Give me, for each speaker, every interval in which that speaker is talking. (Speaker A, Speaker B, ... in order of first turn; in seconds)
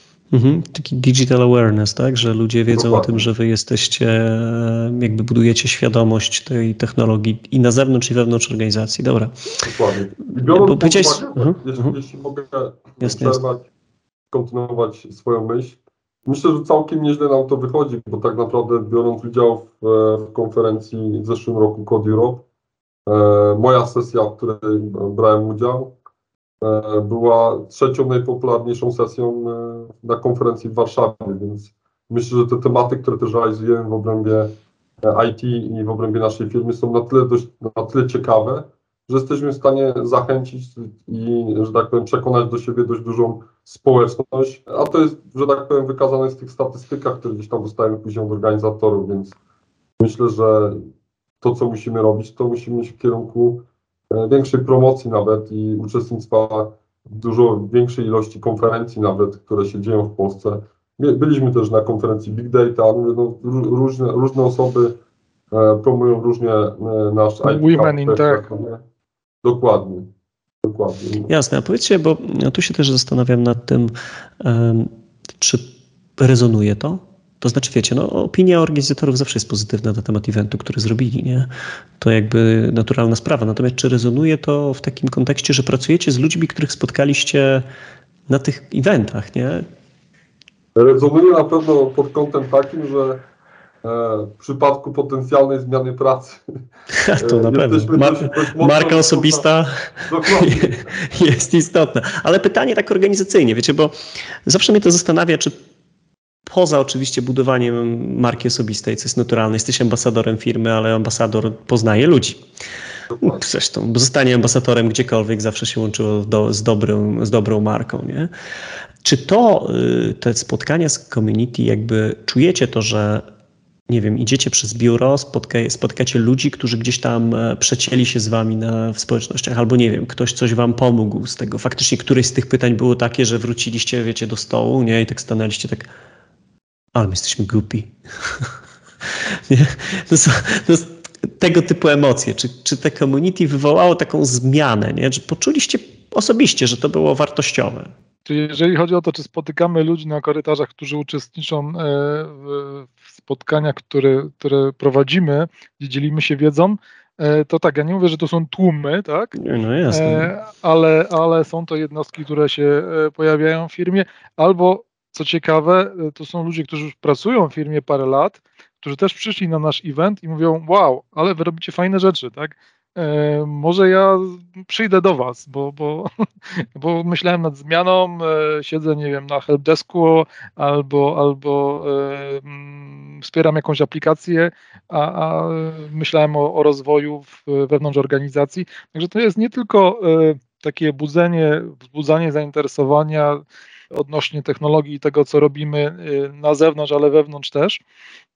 Speaker A: 0.3-9.3, 10.4-11.9, 13.0-13.4, 71.3-87.6, 88.3-89.6, 97.0-105.5, 106.5-112.4, 113.2-118.3, 119.0-123.2, 123.9-135.8, 136.9-138.5, 139.5-147.9, 159.3-160.3
Speaker B: 2.7-3.3, 9.6-13.7, 14.3-22.4, 23.1-25.9, 26.6-49.4, 50.0-50.8, 51.4-65.0, 65.5-68.8, 69.4-70.1, 70.6-71.3, 90.8-93.2, 93.8-96.4, 97.2-99.5, 100.0-100.9, 113.1-113.5
Speaker C: 67.4-68.5, 148.2-159.3, 159.9-176.1, 176.7-197.8